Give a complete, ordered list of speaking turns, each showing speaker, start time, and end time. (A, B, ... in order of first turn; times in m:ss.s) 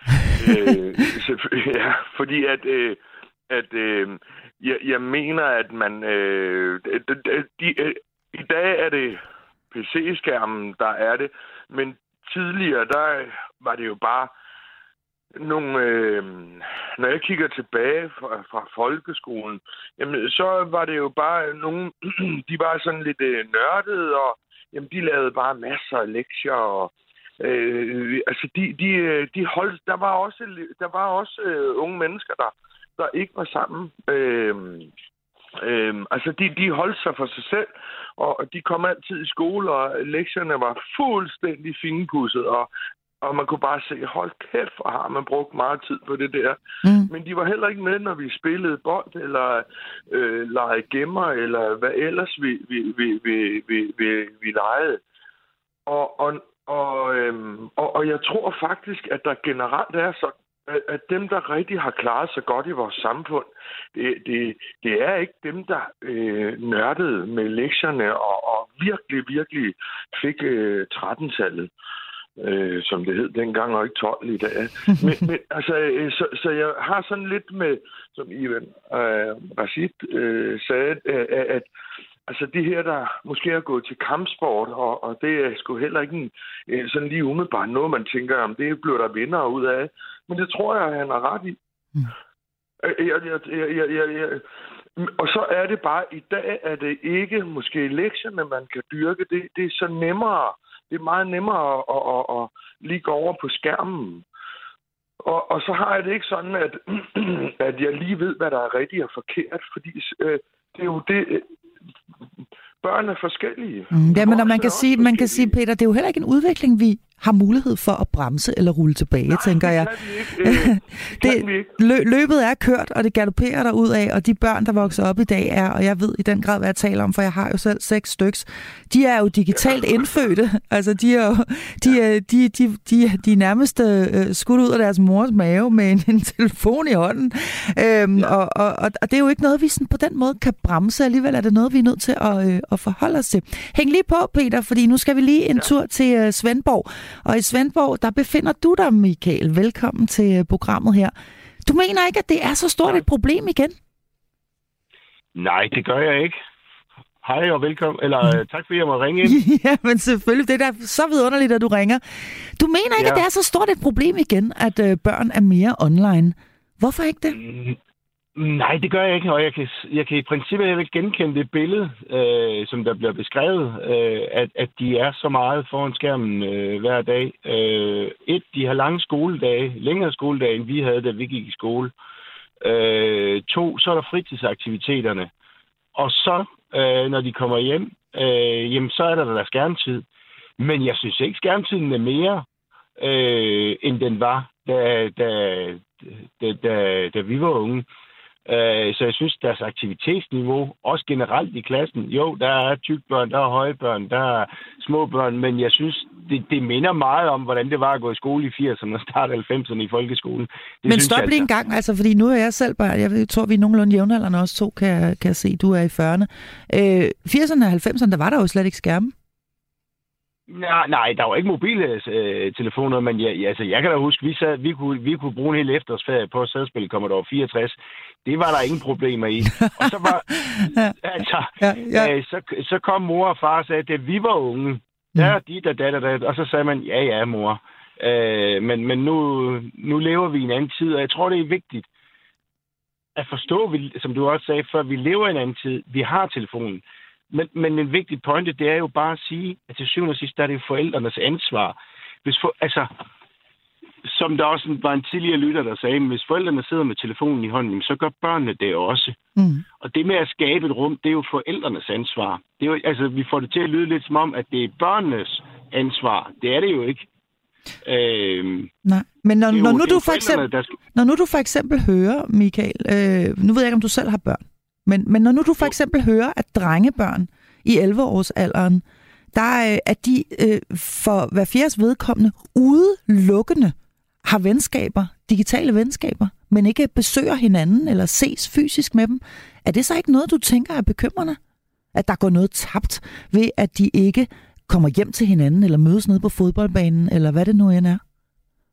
0:00.2-0:09.2 A
0:09.7-0:14.3 A
0:15.4-0:34.9 A
0:35.6-0:42.7 A
0:43.2-0:55.0 A
0:46.8-0:47.1 B
0:55.9-1:11.7 A
1:12.4-1:21.7 A
1:22.3-1:31.6 A
1:32.8-1:34.4 A
1:35.0-1:44.2 A
1:45.2-1:51.5 A
1:52.8-1:55.5 A
1:53.9-2:31.1 B
1:59.3-2:01.7 A
2:31.6-2:33.8 B
2:35.3-2:36.4 C
2:37.2-2:39.4 C
2:39.2-2:47.4 B
2:43.0-2:43.2 C
2:47.3-2:47.8 C
2:48.4-3:01.9 C
3:02.6-3:05.3 C
3:05.9-3:10.0 C
3:10.6-3:12.4 C
3:13.0-3:17.8 C
3:18.4-3:31.5 C
3:30.8-3:39.1 B
3:40.5-4:01.9 C
3:50.6-3:50.9 B
3:51.6-3:52.1 B
4:03.2-4:12.9 C
4:14.0-4:19.2 C
4:19.4-4:19.6 B
4:19.8-4:27.0 C
4:27.8-4:28.7 C
4:28.8-4:51.4 B
4:29.5-4:30.7 C
4:51.9-4:58.0 B